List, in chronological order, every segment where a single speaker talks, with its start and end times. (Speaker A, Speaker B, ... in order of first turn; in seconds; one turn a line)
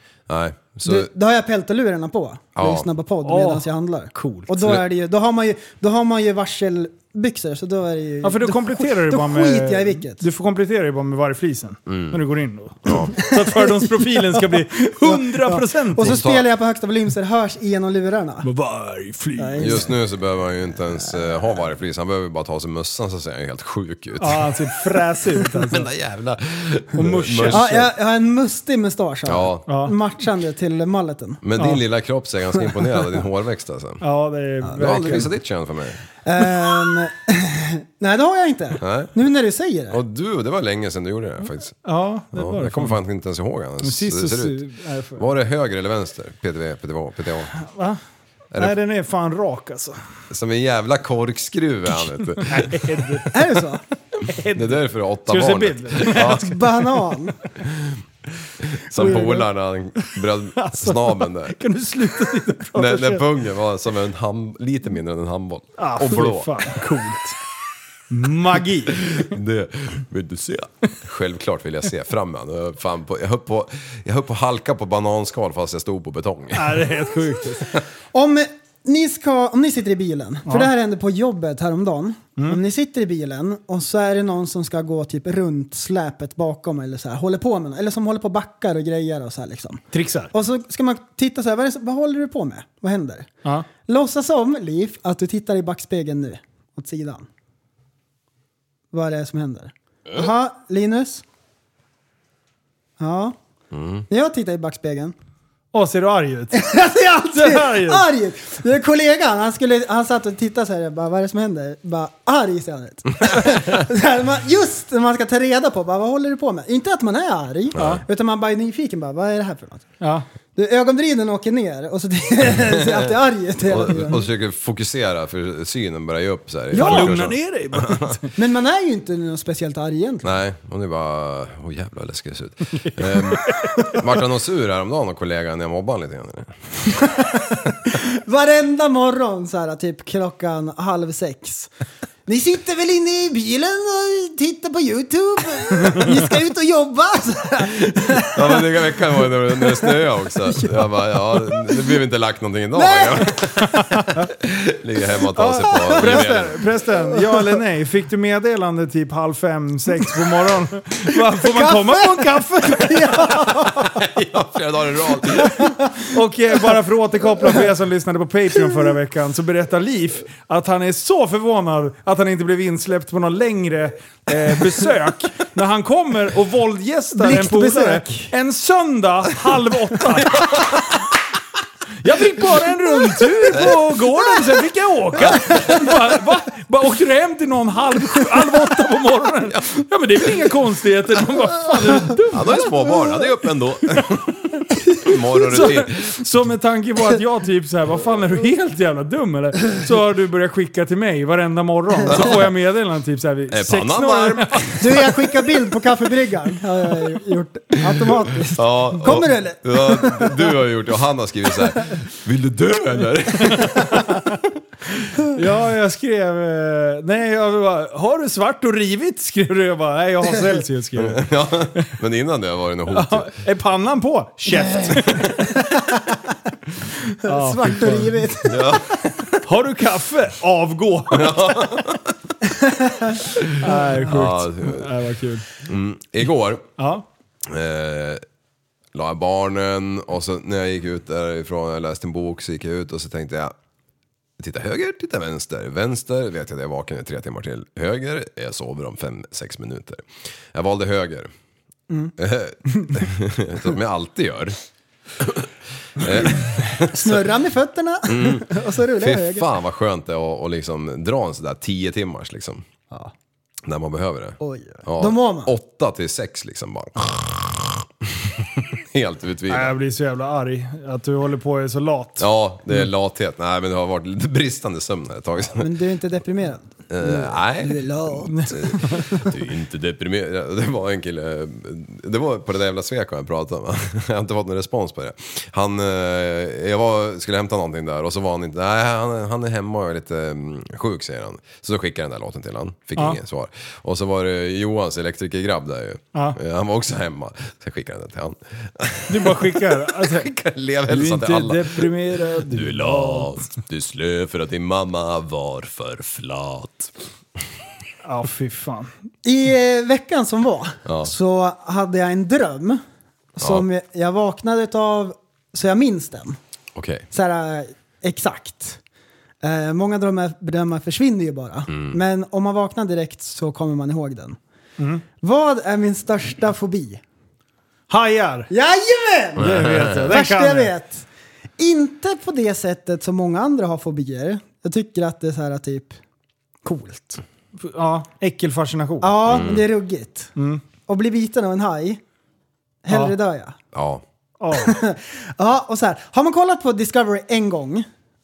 Speaker A: 0.3-1.1
Speaker B: 0.8-10.2
Speaker A: 2.5-2.9
Speaker C: 3.2-4.6
Speaker C: 8.2-16.2
Speaker A: 11.9-12.2
Speaker A: 12.8-13.2
Speaker B: 13.3-18.5
Speaker A: 16.0-16.4
Speaker C: 18.4-19.9
Speaker B: 19.4-19.9
Speaker A: 19.6-24.8
Speaker C: 24.2-25.9
Speaker A: 25.5-27.9
Speaker C: 26.9-27.8
Speaker B: 27.5-31.4
Speaker A: 29.3-29.6
Speaker C: 29.7-30.0
Speaker A: 31.4-34.0
Speaker C: 34.0-35.3
Speaker A: 34.7-36.0
Speaker B: 34.9-35.2
Speaker B: 36.2-40.0
Speaker A: 38.8-39.1
Speaker A: 39.9-41.8
Speaker C: 41.8-43.0
Speaker A: 42.3-44.6
Speaker C: 43.8-45.2
Speaker A: 45.2-47.5
Speaker C: 47.6-48.0
Speaker C: 48.5-50.0
Speaker A: 50.3-53.2
Speaker C: 52.4-53.5
Speaker B: 53.3-53.8
Speaker C: 54.1-57.1
Speaker A: 54.5-56.5
Speaker B: 56.1-57.4
Speaker A: 57.6-58.0
Speaker A: 58.6-61.6
Speaker C: 58.9-59.5
Speaker C: 60.6-63.2
Speaker A: 62.8-66.7
Speaker C: 65.8-67.4
Speaker C: 68.1-69.3
Speaker A: 69.1-76.9
Speaker C: 76.5-77.7
Speaker B: 78.1-93.3
Speaker C: 89.9-90.3
Speaker B: 93.8-97.3
Speaker B: 98.9-101.2
Speaker B: 103.0-103.4
Speaker A: 103.7-104.0
Speaker B: 104.1-105.2
Speaker C: 105.7-106.6
Speaker B: 106.5-119.9
Speaker C: 107.3-108.0
Speaker A: 117.7-118.0
Speaker C: 117.8-118.0
Speaker C: 120.0-120.3
Speaker B: 120.6-124.2
Speaker A: 122.5-128.2
Speaker C: 126.7-128.3
Speaker B: 126.8-127.2
Speaker B: 128.4-130.3
Speaker A: 130.2-136.9
Speaker C: 133.1-134.0
Speaker B: 137.8-141.7
Speaker B: 142.3-148.7
Speaker A: 148.2-156.6
Speaker B: 149.6-149.9
Speaker B: 152.8-153.7
Speaker C: 155.4-163.3
Speaker B: 155.7-156.2
Speaker B: 157.2-157.6
Speaker B: 161.4-164.0
Speaker A: 163.7-165.8
Speaker B: 165.4-165.9
Speaker C: 166.1-180.8
Speaker B: 177.2-178.3
Speaker C: 182.0-192.9
Speaker A: 183.5-183.9
Speaker A: 185.2-185.7
Speaker A: 192.3-194.3
Speaker C: 193.9-194.6
Speaker A: 195.0-196.2
Speaker C: 195.4-205.2
Speaker A: 202.1-202.5
Speaker A: 203.5-205.2
Speaker B: 204.8-210.5
Speaker A: 207.9-214.1
Speaker C: 213.6-214.2
Speaker C: 215.3-221.2
Speaker A: 221.0-223.3
Speaker C: 222.9-225.6
Speaker B: 227.2-228.9
Speaker C: 227.2-228.2
Speaker A: 228.4-229.3
Speaker C: 229.4-231.8
Speaker A: 231.1-232.2
Speaker B: 232.6-233.2
Speaker A: 233.2-235.0
Speaker C: 233.5-235.5
Speaker A: 235.6-236.7
Speaker C: 236.8-237.1
Speaker A: 237.4-238.2
Speaker A: 238.9-243.6
Speaker A: 244.4-251.3
Speaker A: 252.2-254.6
Speaker A: 255.2-257.2
Speaker B: 256.9-259.5
Speaker A: 258.1-262.6
Speaker A: 263.6-269.8
Speaker B: 264.4-265.5
Speaker C: 269.5-272.3
Speaker A: 272.2-275.7
Speaker B: 275.6-278.8
Speaker A: 276.9-306.9
Speaker C: 278.3-279.2
Speaker C: 299.1-300.3
Speaker C: 300.9-303.4
Speaker C: 308.0-308.9
Speaker B: 309.2-312.8
Speaker A: 310.9-311.1
Speaker B: 313.4-316.4
Speaker A: 313.4-313.7
Speaker A: 316.8-317.1
Speaker B: 317.1-318.8
Speaker B: 319.4-324.4
Speaker A: 321.7-322.0
Speaker C: 324.8-325.0
Speaker B: 325.2-327.0
Speaker C: 327.9-328.5
Speaker B: 328.5-331.1
Speaker A: 329.4-330.1
Speaker C: 329.4-330.7
Speaker B: 331.6-336.0
Speaker B: 336.6-337.2
Speaker C: 337.6-339.2
Speaker B: 339.0-340.3
Speaker A: 339.3-339.6
Speaker C: 340.4-340.6
Speaker B: 340.9-342.0
Speaker B: 342.8-343.6
Speaker A: 343.7-344.0
Speaker C: 344.4-344.8
Speaker B: 344.6-347.9